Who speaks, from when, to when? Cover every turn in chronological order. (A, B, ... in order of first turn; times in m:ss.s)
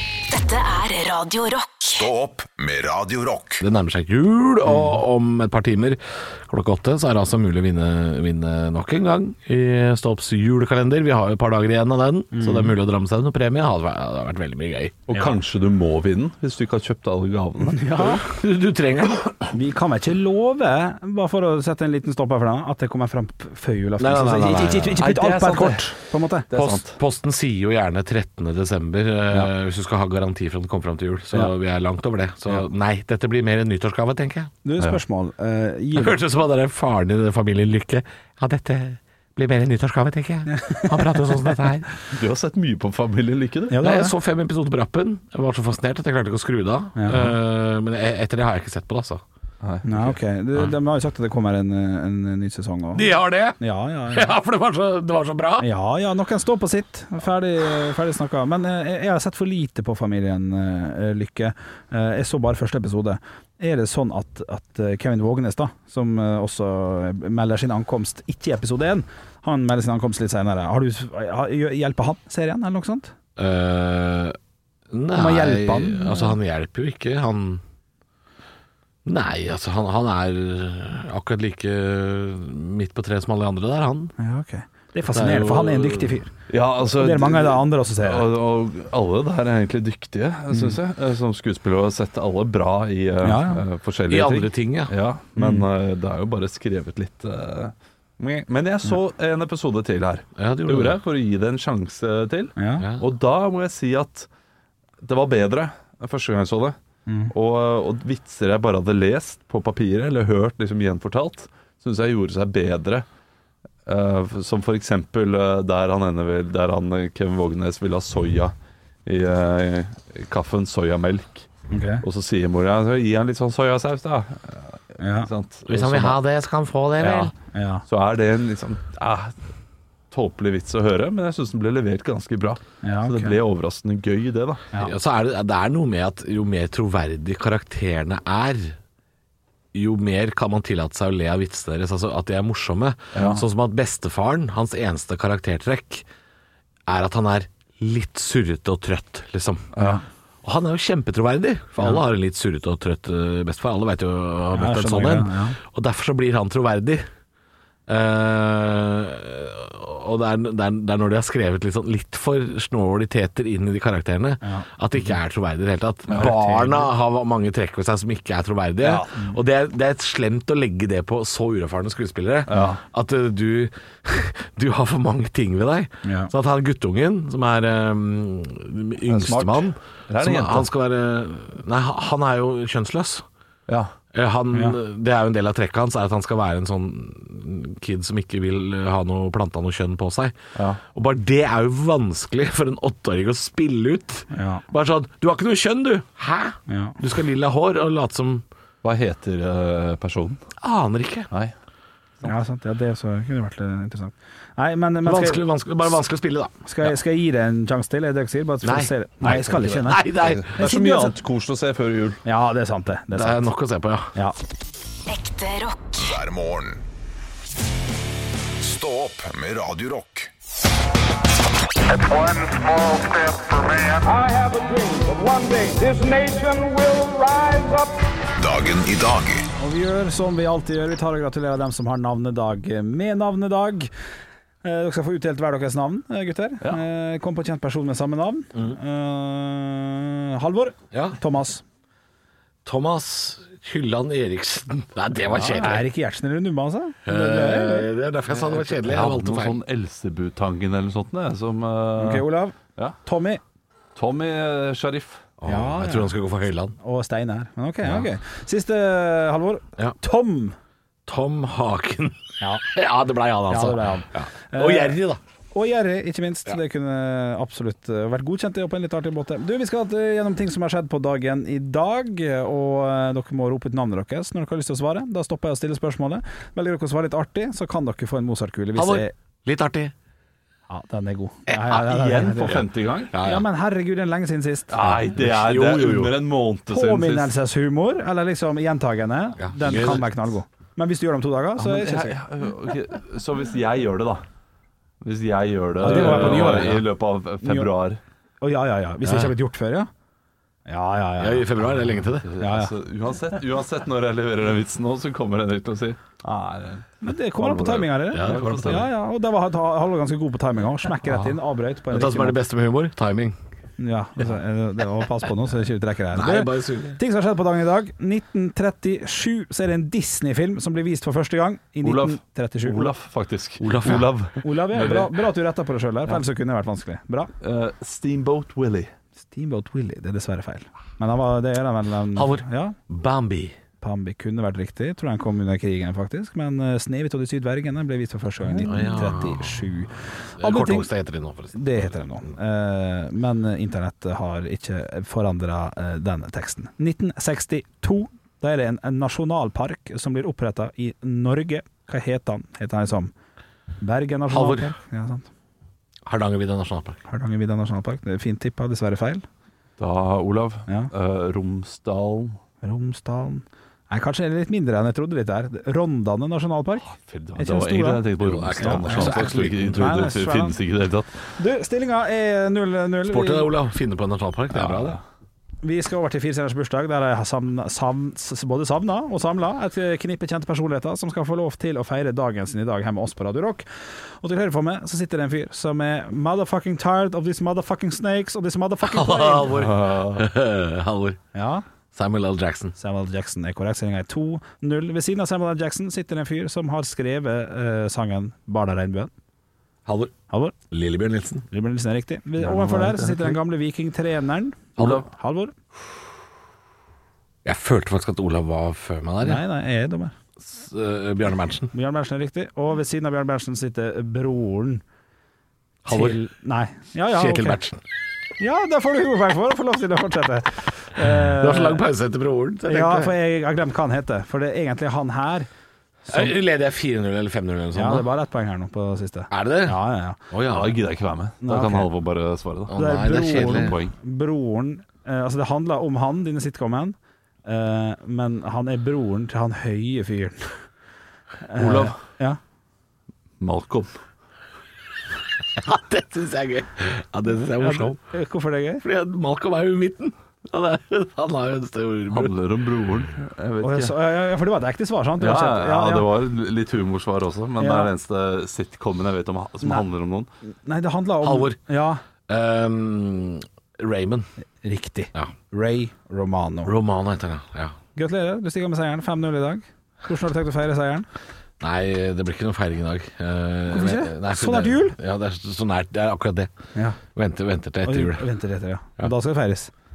0:00.3-0:02.1 A
0:01.9-0:03.6 B
0:03.6-0:15.3 C
0:04.7-0:04.9 D
0:12.3-0:12.8 D
0:15.1-0:18.1 E
0:17.6-0:18.2 D
0:18.0-0:19.5 C
0:19.5-0:26.8 D
0:24.0-0:25.0 C
0:24.9-0:25.9 E
0:26.5-0:27.0 E
0:26.6-0:34.5 C
0:34.6-0:36.2 D
0:35.9-0:41.9 C
0:40.5-0:41.6 D
0:42.1-0:43.8 E
0:43.7-0:44.2 D
0:43.8-0:49.2 C
0:47.0-0:47.3 D
0:49.6-0:50.2 E
0:49.8-0:54.3 D
0:52.9-0:53.6 C
0:54.1-0:55.7 C
0:55.6-1:13.1 D
1:13.4-1:14.4 C
1:14.9-1:17.6 C
1:15.1-1:16.3 D
1:19.0-1:24.1 C
1:24.2-1:26.3 D
1:25.1-1:26.2 C
1:26.5-1:44.3 E
1:26.8-1:28.3 D
1:30.5-1:30.8 D
1:33.2-1:33.6 D
1:34.1-1:34.9 C
1:35.4-1:35.7 D
1:40.4-1:41.0 C
1:42.6-1:42.8 D
1:42.8-1:43.1 C
1:45.0-1:46.8 E
1:47.1-1:47.3 D
1:47.3-1:53.0 E
1:53.8-2:01.5 E
2:01.7-2:02.0 D
2:02.0-2:06.2 E
2:05.0-2:05.3 D
2:05.7-2:07.3 C
2:07.0-2:07.3 E
2:07.5-2:07.8 D
2:07.9-2:09.4 E
2:10.1-2:14.6 E
2:12.8-2:13.4 D
2:14.7-2:18.8 C
2:19.7-2:26.0 C
2:23.1-2:23.4 E
2:26.9-2:29.7 C
2:29.7-2:30.0 E
2:29.8-2:30.0 D
2:30.4-2:37.1 C
2:34.5-2:35.6 D
2:37.9-3:03.2 C
2:46.1-2:46.8 D
2:48.8-2:49.4 D
2:52.5-2:52.8 E
2:56.0-2:56.3 D
2:59.1-3:00.7 E
3:03.7-3:03.9 E
3:04.1-3:10.4 C
3:10.6-3:10.8 E
3:10.9-3:18.4 C
3:14.3-3:14.6 D
3:16.7-3:17.0 D
3:18.8-3:20.4 E
3:20.6-3:21.3 C
3:22.2-3:25.4 D
3:25.0-3:26.5 C
3:26.6-3:30.0 D
3:28.6-3:30.5 C
3:29.2-3:32.2 E
3:30.6-3:31.2 D
3:32.2-3:33.5 D
3:33.1-3:34.1 C
3:35.1-3:36.0 A
3:36.0-3:36.8 B
3:38.6-3:40.3 B
3:41.8-3:48.0 F
3:48.4-3:49.4 B
3:49.6-3:53.9 D
3:54.6-4:01.6 D
4:00.9-4:01.2 C
4:02.6-4:05.8 C
4:05.3-4:05.7 E
4:05.5-4:07.9 D
4:07.0-4:09.6 C
4:08.5-4:13.0 E
4:12.0-4:13.4 D
4:14.0-4:15.2 E
4:15.4-4:16.7 C
4:15.4-4:16.1 D
4:16.8-4:20.6 D
4:17.8-4:18.1 C
4:21.0-4:25.2 C
4:22.4-4:22.6 D
4:23.5-4:25.0 D
4:25.5-4:39.1 D
4:38.8-4:39.9 C
4:40.7-4:42.6 D
4:41.7-4:43.1 E
4:43.1-4:43.4 C
4:43.2-4:45.1 D
4:44.7-4:47.3 E
4:45.1-4:46.1 C
4:46.7-4:52.2 D
4:49.4-4:50.1 C
4:51.6-4:54.2 E
4:55.0-4:58.0 E
4:55.8-4:56.8 D
4:55.8-4:56.8 C
4:57.4-4:57.7 D
4:58.4-4:59.9 D
4:59.0-4:59.3 C
5:00.7-5:01.5 D
5:01.2-5:02.3 C
5:02.2-5:08.9 E
5:02.4-5:02.7 D
5:07.0-5:12.4 D
5:08.1-5:08.9 C
5:11.9-5:13.4 C
5:13.8-5:22.9 D
5:16.1-5:17.0 C
5:21.8-5:25.1 E
5:23.6-5:24.1 C
5:23.8-5:27.3 D
5:27.4-5:28.9 E
5:29.2-5:32.8 D
5:32.1-5:33.6 C
5:33.8-5:40.9 D
5:38.6-5:39.8 C
5:40.4-5:42.3 C
5:41.5-5:53.1 D
5:53.8-5:55.3 D
5:54.3-5:54.7 C
5:56.0-5:57.0 C
5:57.1-5:59.2 D
5:59.8-6:02.4 E
6:02.6-6:08.1 D
6:06.9-6:11.2 E
6:08.2-6:10.0 C
6:08.6-6:10.6 D
6:11.4-6:13.5 D
6:13.0-6:15.0 C
6:14.5-6:15.0 D
6:15.6-6:29.5 D
6:28.8-6:31.2 C
6:29.5-6:30.3 E
6:31.3-6:31.6 D
6:31.9-6:32.7 C
6:32.8-6:39.1 D
6:39.8-6:40.1 C
6:40.3-6:40.5 D
6:40.7-6:41.4 C
6:41.5-6:45.5 D
6:42.4-6:43.4 E
6:44.8-6:45.0 C
6:47.4-6:49.4 C
6:49.2-6:50.1 D
6:50.4-6:51.7 C
6:51.7-6:54.8 D
6:55.8-6:56.2 C
6:55.8-6:57.6 D
6:57.1-6:57.8 C
6:58.4-7:01.8 D
7:01.0-7:03.1 C
7:02.7-7:05.5 D
7:06.0-7:06.3 D
7:06.1-7:08.0 C
7:07.7-7:10.2 D
7:09.3-7:10.8 C
7:10.5-7:12.7 E
7:11.4-7:11.9 D
7:12.7-7:13.8 C
7:12.8-7:20.5 D
7:13.3-7:13.9 E
7:21.4-7:22.4 D
7:21.6-7:22.0 E
7:23.4-7:23.9 E
7:25.5-7:28.0 C
7:27.6-7:28.8 D
7:28.8-7:32.3 C
7:32.1-7:33.9 E
7:33.6-7:36.1 D
7:35.2-7:40.3 E
7:37.6-7:37.9 D
7:40.5-7:42.0 D
7:41.2-7:41.6 C
7:42.3-7:44.3 C
7:44.6-7:46.7 D
7:46.6-7:47.7 C
7:47.9-7:51.1 D
7:51.6-7:56.5 C
7:53.7-7:55.0 D
7:57.1-7:58.3 C
7:57.8-7:59.7 D